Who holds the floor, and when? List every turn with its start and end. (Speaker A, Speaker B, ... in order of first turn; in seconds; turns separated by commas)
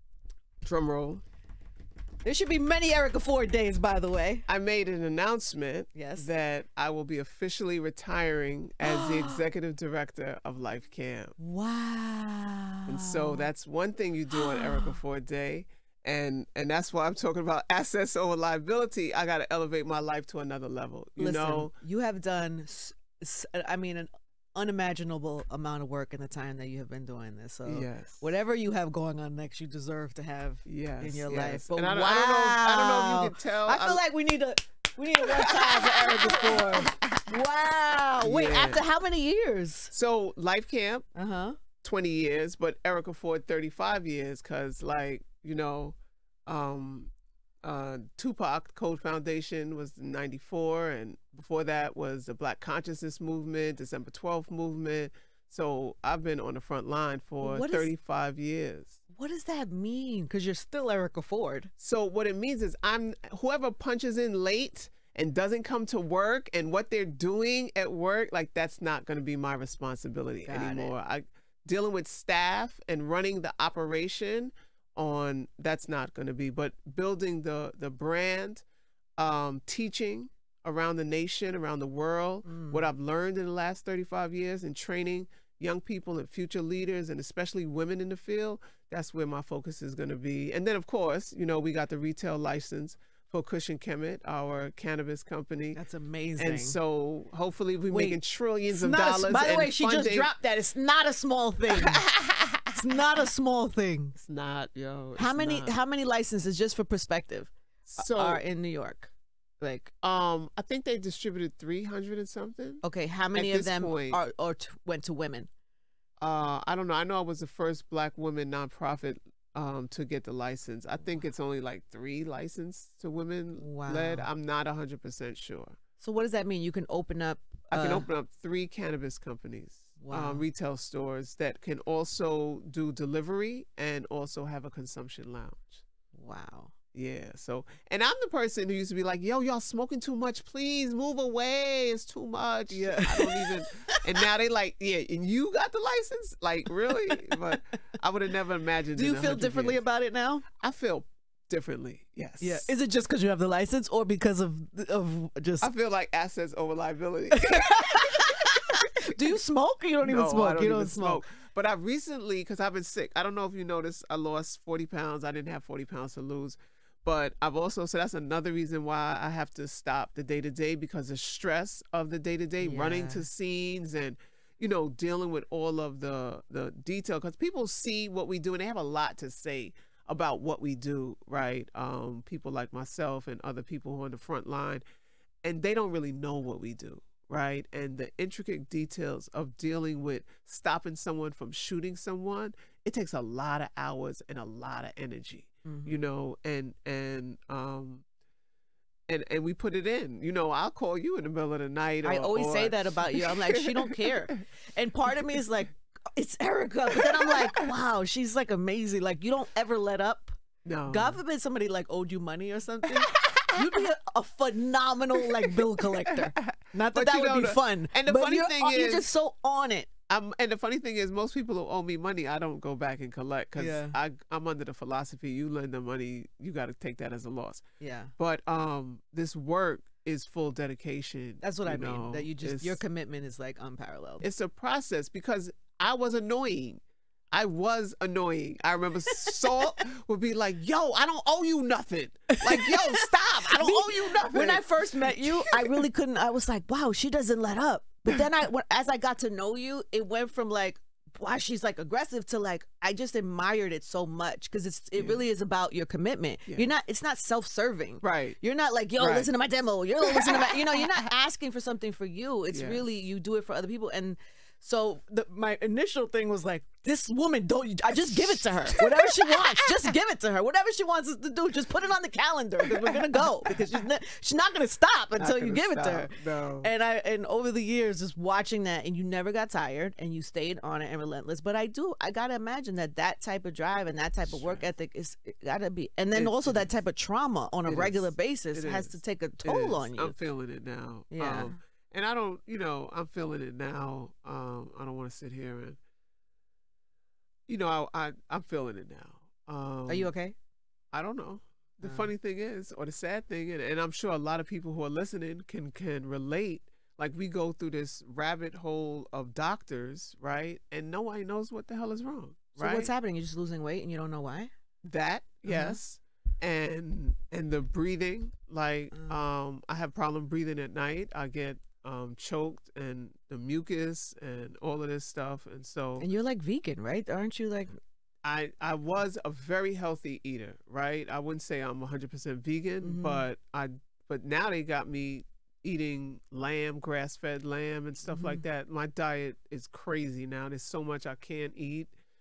Speaker A: 0.6-1.2, Speaker B: 2.2-4.5, Speaker A: 4.5-11.3, Speaker B: 5.9-6.3, Speaker B: 8.8-9.5, Speaker B: 11.4-13.5, Speaker A: 12.9-21.7, Speaker B: 14.3-15.0, Speaker B: 21.2-39.9, Speaker A: 27.7-28.2, Speaker A: 30.6-34.0, Speaker A: 35.4-37.2, Speaker A: 38.2-38.8, Speaker A: 39.9-41.1, Speaker B: 41.1-41.6, Speaker A: 41.8-46.0, Speaker A: 46.5-47.1, Speaker A: 47.6-59.0, Speaker B: 57.4-57.9, Speaker B: 59.1-61.7, Speaker A: 61.8-78.7, Speaker B: 70.5-70.9, Speaker A: 79.2-95.8, Speaker B: 82.5-82.9, Speaker B: 95.8-96.8, Speaker A: 96.4-100.3, Speaker B: 97.9-102.0, Speaker A: 101.7-102.8, Speaker B: 102.7-104.2, Speaker A: 104.2-105.8, Speaker B: 105.2-109.9, Speaker A: 107.9-108.4, Speaker A: 110.0-112.8, Speaker B: 112.8-115.5, Speaker A: 113.3-114.2, Speaker A: 116.2-125.8, Speaker B: 123.6-124.3, Speaker B: 126.0-128.1, Speaker A: 127.7-135.8, Speaker B: 130.0-130.4, Speaker B: 136.1-136.7, Speaker A: 136.9-149.8, Speaker B: 142.7-144.0, Speaker B: 147.1-147.5, Speaker B: 148.9-150.4, Speaker A: 150.6-152.7, Speaker B: 152.4-155.7, Speaker A: 155.6-159.1, Speaker B: 157.3-161.2, Speaker A: 160.0-184.8, Speaker B: 172.6-173.3, Speaker A: 185.4-198.1, Speaker B: 195.7-196.0, Speaker A: 199.1-204.4, Speaker B: 202.0-219.9, Speaker A: 207.0-207.6, Speaker A: 210.7-211.2, Speaker A: 212.9-213.8, Speaker A: 215.2-219.1, Speaker A: 220.1-227.6, Speaker B: 223.6-224.0, Speaker B: 227.8-228.1, Speaker A: 228.2-232.8, Speaker B: 231.4-234.3, Speaker A: 234.2-236.8, Speaker A: 237.3-245.9, Speaker B: 239.1-239.5, Speaker B: 242.3-290.2, Speaker A: 254.9-255.2, Speaker A: 258.0-258.4, Speaker A: 259.0-259.3, Speaker A: 260.0-260.9, Speaker A: 262.5-262.8, Speaker A: 268.1-269.9, Speaker A: 272.6-273.8, Speaker A: 275.2-276.7, Speaker A: 284.3-284.7, Speaker A: 286.1-286.7, Speaker A: 287.7-295.8, Speaker B: 291.1-291.6, Speaker A: 297.5-300.1, Speaker B: 299.9-300.4, Speaker A: 300.9-312.9, Speaker B: 301.8-302.1, Speaker B: 312.6-314.5, Speaker A: 314.8-326.1, Speaker B: 315.5-315.8, Speaker B: 326.0-327.8, Speaker A: 328.2-341.9, Speaker B: 332.8-333.3, Speaker B: 338.1-338.4